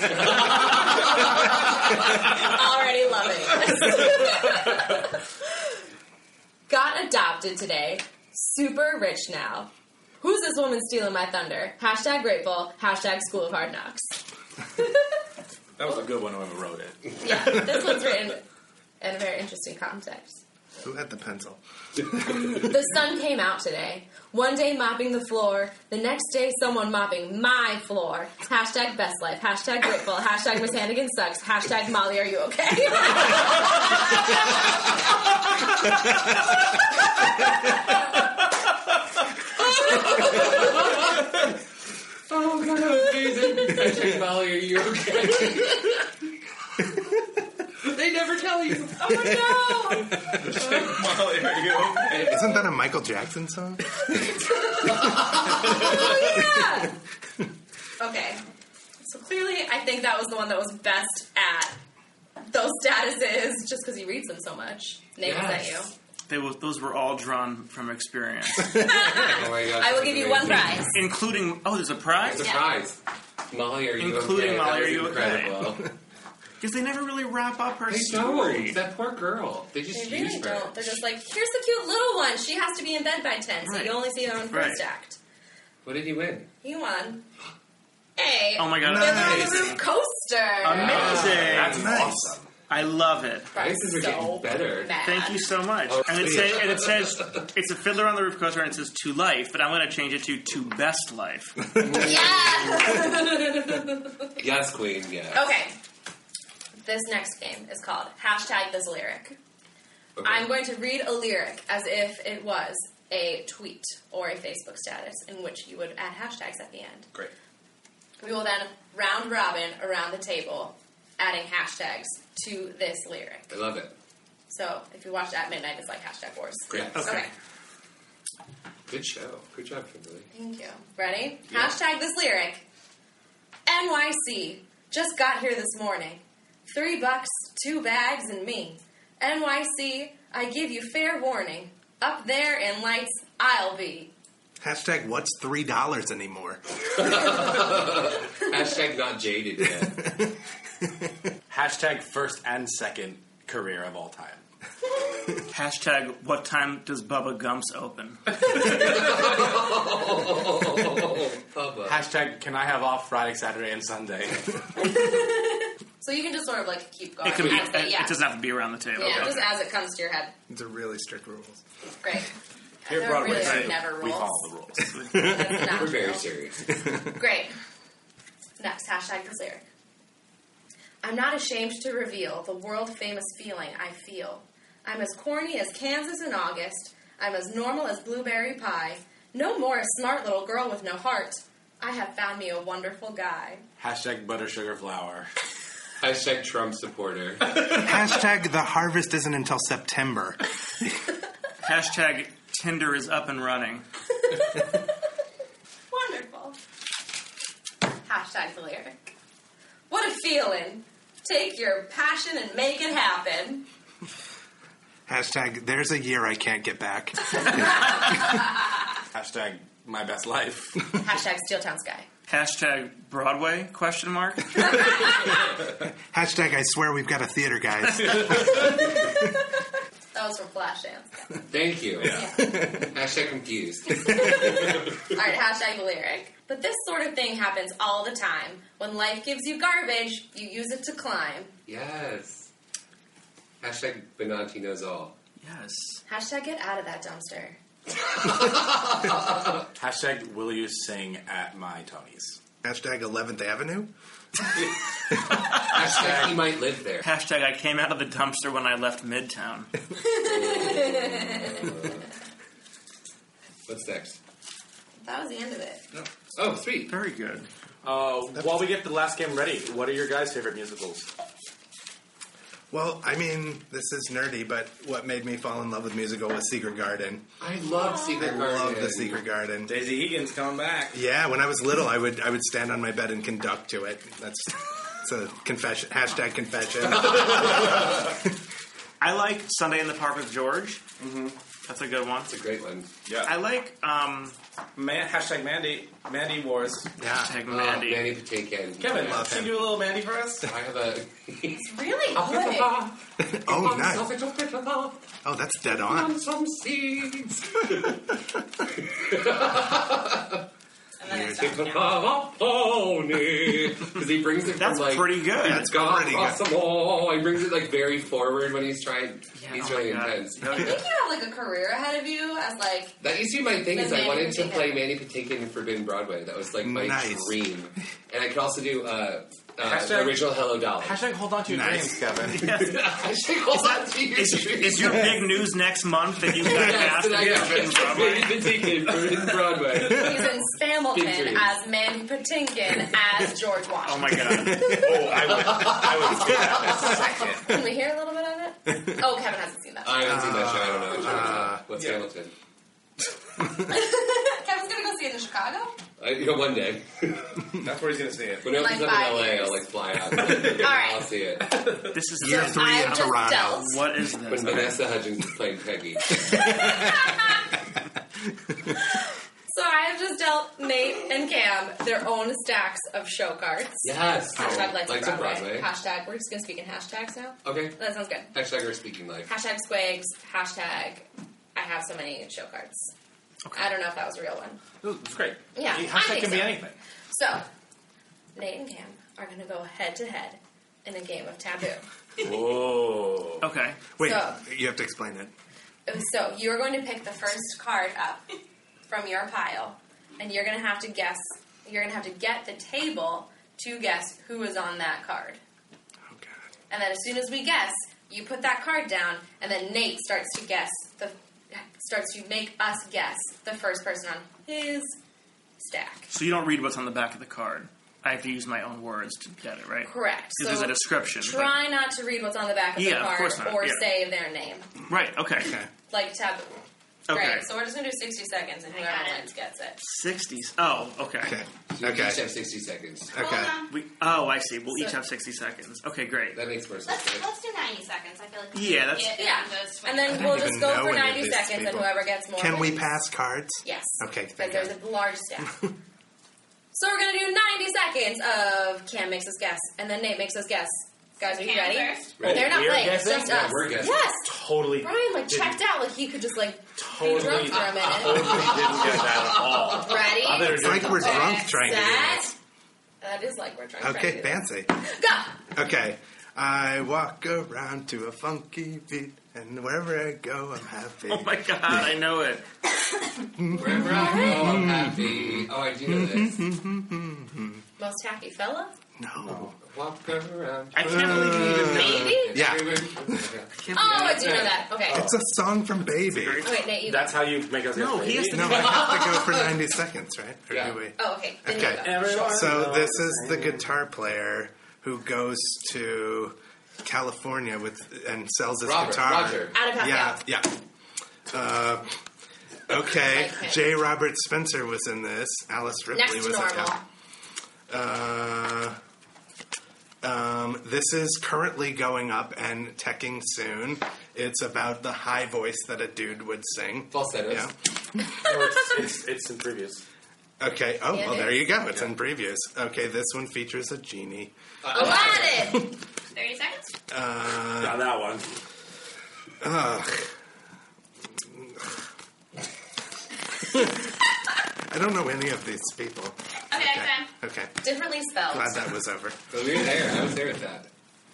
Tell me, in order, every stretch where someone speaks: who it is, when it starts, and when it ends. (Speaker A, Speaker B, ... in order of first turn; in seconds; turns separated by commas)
Speaker A: 0.3-1.0, Speaker B: 1.0-5.7, Speaker B: 6.7-14.2, Speaker B: 14.8-15.2, Speaker C: 15.8-17.9, Speaker B: 17.2-18.4, Speaker B: 19.0-20.4, Speaker D: 20.8-22.7, Speaker B: 22.6-34.3, Speaker A: 39.8-41.3, Speaker A: 42.3-46.0, Speaker A: 47.8-49.6, Speaker B: 49.0-50.1, Speaker C: 50.4-52.2, Speaker A: 50.6-51.0, Speaker A: 52.1-52.4, Speaker D: 52.1-54.0, Speaker B: 54.5-57.0, Speaker A: 54.9-55.9, Speaker D: 55.9-56.6, Speaker B: 58.0-58.4, Speaker B: 59.0-61.8, Speaker B: 62.5-65.9, Speaker A: 65.2-65.9, Speaker E: 66.3-68.7, Speaker B: 68.6-70.9, Speaker A: 69.1-70.9, Speaker E: 70.9-72.5, Speaker A: 72.2-73.0, Speaker A: 73.5-75.9, Speaker E: 74.0-75.8, Speaker E: 76.6-78.8, Speaker A: 77.9-81.0, Speaker B: 79.9-85.2, Speaker E: 83.6-84.8, Speaker A: 85.8-86.5, Speaker B: 86.6-87.2, Speaker B: 88.2-91.2, Speaker E: 88.6-89.8, Speaker D: 88.8-89.7, Speaker E: 90.7-91.8, Speaker C: 90.7-92.5, Speaker A: 90.8-91.6, Speaker D: 90.9-92.4, Speaker E: 92.7-93.5, Speaker B: 93.5-95.4, Speaker A: 93.5-95.0, Speaker E: 95.0-101.6, Speaker A: 95.9-97.4, Speaker A: 101.8-103.1, Speaker D: 101.8-102.1, Speaker B: 101.9-104.3, Speaker A: 104.4-105.5, Speaker B: 105.3-105.8, Speaker B: 106.8-109.4, Speaker A: 110.2-110.5, Speaker B: 110.2-117.1, Speaker B: 118.2-123.6, Speaker A: 123.5-123.9, Speaker B: 124.5-127.3, Speaker A: 126.7-127.2, Speaker A: 128.9-130.3, Speaker B: 130.3-132.7, Speaker A: 131.5-131.7, Speaker B: 133.7-144.1, Speaker D: 144.6-146.6, Speaker A: 147.0-150.0, Speaker D: 149.8-150.3, Speaker C: 151.5-154.4, Speaker E: 155.5-158.3, Speaker A: 158.6-162.0, Speaker C: 161.9-164.6, Speaker B: 164.8-168.2, Speaker E: 167.2-169.5, Speaker B: 169.0-170.3, Speaker D: 170.5-171.6, Speaker B: 172.0-172.3, Speaker B: 172.8-174.5, Speaker C: 172.9-175.1, Speaker B: 175.1-176.3, Speaker A: 175.6-176.6, Speaker B: 177.1-177.6, Speaker B: 178.6-179.6, Speaker B: 181.0-193.6, Speaker C: 193.8-195.3, Speaker A: 196.0-197.7, Speaker D: 197.7-200.4, Speaker E: 201.6-203.8, Speaker B: 204.4-204.7, Speaker B: 205.9-206.6, Speaker B: 208.1-209.1, Speaker B: 209.9-213.7, Speaker D: 215.1-218.1, Speaker C: 219.1-220.9, Speaker B: 221.0-222.1, Speaker E: 222.3-224.8, Speaker B: 224.7-225.2, Speaker D: 226.1-228.9, Speaker B: 230.1-231.2, Speaker A: 231.5-232.2, Speaker B: 232.0-232.7, Speaker D: 232.4-232.9, Speaker A: 232.8-234.7, Speaker B: 233.9-241.5, Speaker A: 241.7-242.5, Speaker A: 243.6-245.2, Speaker E: 245.4-246.0, Speaker B: 246.1-247.6, Speaker A: 248.1-249.6, Speaker C: 249.8-252.4, Speaker D: 252.6-253.9, Speaker A: 255.7-257.1, Speaker C: 255.8-256.4, Speaker E: 257.0-259.7, Speaker B: 260.0-261.7, Speaker A: 260.2-262.1, Speaker A: 263.7-264.2, Speaker B: 265.0-265.8, Speaker A: 266.4-266.9, Speaker E: 266.9-267.5, Speaker C: 267.8-271.1, Speaker D: 272.7-277.3, Speaker A: 277.4-279.2, Speaker D: 278.1-279.7, Speaker C: 279.7-281.0, Speaker D: 280.9-288.1, Speaker A: 286.9-287.8, Speaker E: 289.0-290.8, Speaker C: 291.0-291.3, Speaker E: 291.7-292.3, Speaker A: 292.3-292.9, Speaker E: 293.2-294.4, Speaker C: 294.8-296.9, Speaker D: 297.0-297.3, Speaker E: 297.2-298.1, Speaker A: 297.5-299.4, Speaker C: 298.8-300.4, Speaker D: 298.9-299.6, Speaker A: 300.4-305.1, Speaker B: 301.5-302.7, Speaker D: 303.2-304.1, Speaker D: 305.2-306.1, Speaker A: 305.8-308.0, Speaker A: 308.8-310.4, Speaker F: 311.0-311.9, Speaker D: 311.1-311.6, Speaker A: 311.2-320.6, Speaker E: 314.6-315.7, Speaker D: 315.4-316.4, Speaker E: 319.4-320.8, Speaker B: 320.5-323.0, Speaker A: 323.0-331.0, Speaker B: 323.7-324.9, Speaker D: 326.6-327.4, Speaker C: 329.6-332.5, Speaker D: 331.5-332.0, Speaker E: 332.3-332.8, Speaker A: 332.4-335.1, Speaker E: 333.5-338.4, Speaker A: 336.3-340.1, Speaker B: 339.9-344.4, Speaker A: 340.9-341.5, Speaker E: 343.8-344.8, Speaker D: 344.5-344.8, Speaker C: 344.6-347.4, Speaker A: 345.3-347.2, Speaker B: 347.4-350.2, Speaker A: 349.8-352.3, Speaker D: 350.0-351.6, Speaker C: 351.8-352.0, Speaker B: 353.6-355.8, Speaker A: 356.0-357.3, Speaker C: 357.6-358.8, Speaker A: 358.4-361.6, Speaker B: 358.5-359.6, Speaker C: 360.2-360.5, Speaker B: 360.6-361.1, Speaker E: 361.9-364.8, Speaker D: 362.2-363.8, Speaker B: 362.2-363.8, Speaker A: 364.2-366.2, Speaker D: 366.3-366.9, Speaker B: 366.3-367.4, Speaker B: 369.5-378.3, Speaker A: 373.8-375.7, Speaker A: 377.4-377.8, Speaker A: 378.3-379.3, Speaker B: 379.3-382.9, Speaker B: 383.5-384.6, Speaker C: 384.8-386.8, Speaker B: 385.6-387.4, Speaker B: 388.4-391.9, Speaker C: 392.2-393.4, Speaker E: 393.4-393.8, Speaker D: 394.0-395.3, Speaker B: 394.0-394.4, Speaker B: 395.9-398.3, Speaker B: 398.9-405.4, Speaker B: 406.7-415.0, Speaker B: 415.6-416.1, Speaker E: 416.1-421.6, Speaker B: 419.8-424.7, Speaker E: 422.8-423.8, Speaker E: 424.9-425.6, Speaker D: 425.4-425.7, Speaker B: 425.9-426.5, Speaker E: 427.1-427.5, Speaker B: 427.1-429.8, Speaker F: 428.7-429.3, Speaker E: 429.8-431.4, Speaker D: 431.2-432.2, Speaker A: 431.7-433.2, Speaker D: 433.1-433.6, Speaker F: 433.2-433.7, Speaker E: 433.7-436.4, Speaker B: 434.7-435.0, Speaker A: 436.3-437.3, Speaker F: 436.9-440.5, Speaker E: 438.5-439.1, Speaker B: 439.1-442.9, Speaker D: 440.1-444.8, Speaker B: 443.6-445.5, Speaker D: 445.4-445.7, Speaker B: 446.7-454.3, Speaker F: 451.2-452.2, Speaker A: 452.2-454.1, Speaker C: 452.2-455.6, Speaker B: 454.8-458.7, Speaker C: 456.8-461.3, Speaker A: 457.1-460.2, Speaker B: 459.8-462.3, Speaker D: 460.5-462.3, Speaker F: 461.1-461.5, Speaker B: 463.0-465.4, Speaker D: 463.8-464.8, Speaker D: 465.6-471.9, Speaker E: 471.1-472.4, Speaker D: 473.4-477.6, Speaker A: 473.5-476.4, Speaker B: 477.8-478.7, Speaker D: 479.0-479.5, Speaker C: 479.2-479.5, Speaker A: 479.6-481.0, Speaker E: 480.8-482.2, Speaker D: 480.8-483.3, Speaker A: 481.6-484.6, Speaker B: 481.7-482.4, Speaker E: 483.6-484.5, Speaker B: 483.7-485.1, Speaker D: 484.9-486.5, Speaker C: 484.9-485.2, Speaker E: 486.1-486.6, Speaker B: 486.4-487.3, Speaker C: 486.8-488.8, Speaker E: 487.7-489.0, Speaker D: 488.3-500.6, Speaker A: 488.7-489.2, Speaker A: 490.5-490.8, Speaker B: 491.0-492.5, Speaker C: 491.8-493.7, Speaker A: 498.6-499.6, Speaker B: 499.5-500.2, Speaker D: 501.3-502.0, Speaker D: 502.7-506.8, Speaker B: 502.9-503.7, Speaker B: 505.9-506.8, Speaker D: 507.7-508.8, Speaker D: 510.0-518.0, Speaker A: 516.9-517.5, Speaker C: 518.2-519.8, Speaker D: 520.4-525.7, Speaker B: 520.9-521.5, Speaker A: 524.7-525.5, Speaker B: 524.7-525.7, Speaker F: 526.1-526.7, Speaker D: 526.9-527.9, Speaker C: 527.6-528.3, Speaker D: 529.4-530.1, Speaker D: 531.2-531.7, Speaker D: 533.5-533.8, Speaker D: 534.7-537.5, Speaker F: 536.5-537.1, Speaker B: 537.6-538.7, Speaker D: 538.3-539.2, Speaker A: 539.3-540.7